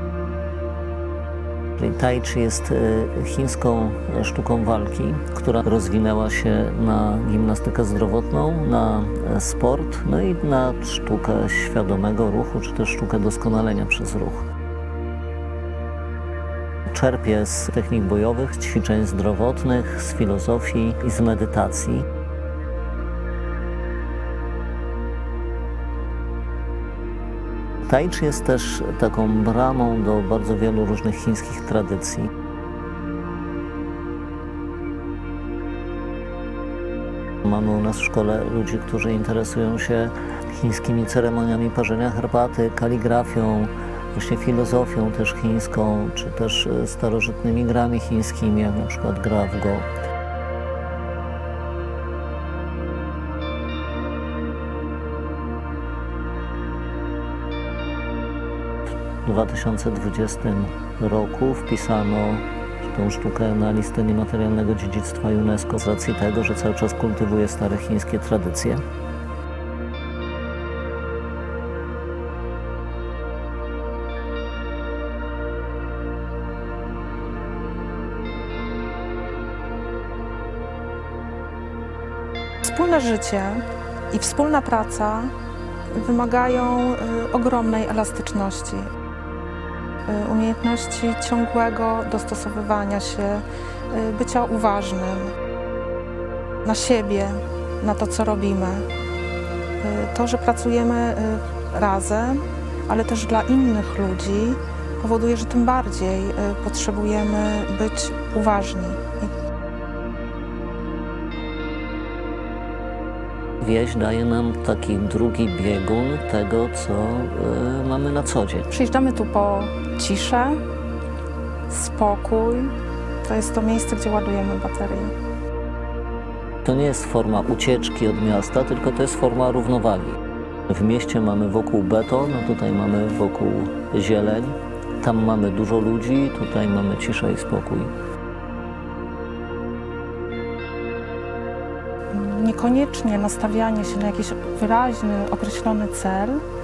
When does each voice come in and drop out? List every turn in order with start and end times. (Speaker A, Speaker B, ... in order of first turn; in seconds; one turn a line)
Speaker A: 1.8-14.4
Speaker A: 16.9-22.1
Speaker A: 27.9-32.3
Speaker A: 37.4-49.9
Speaker A: 59.2-68.8
Speaker B: 82.6-85.3
Speaker B: 85.9-88.9
Speaker B: 90.1-95.3
Speaker B: 96.6-98.9
Speaker B: 99.8-109.3
Speaker A: 113.6-118.7
Speaker B: 118.7-120.6
Speaker B: 121.7-125.1
Speaker A: 126.6-137.9
Speaker B: 142.1-146.4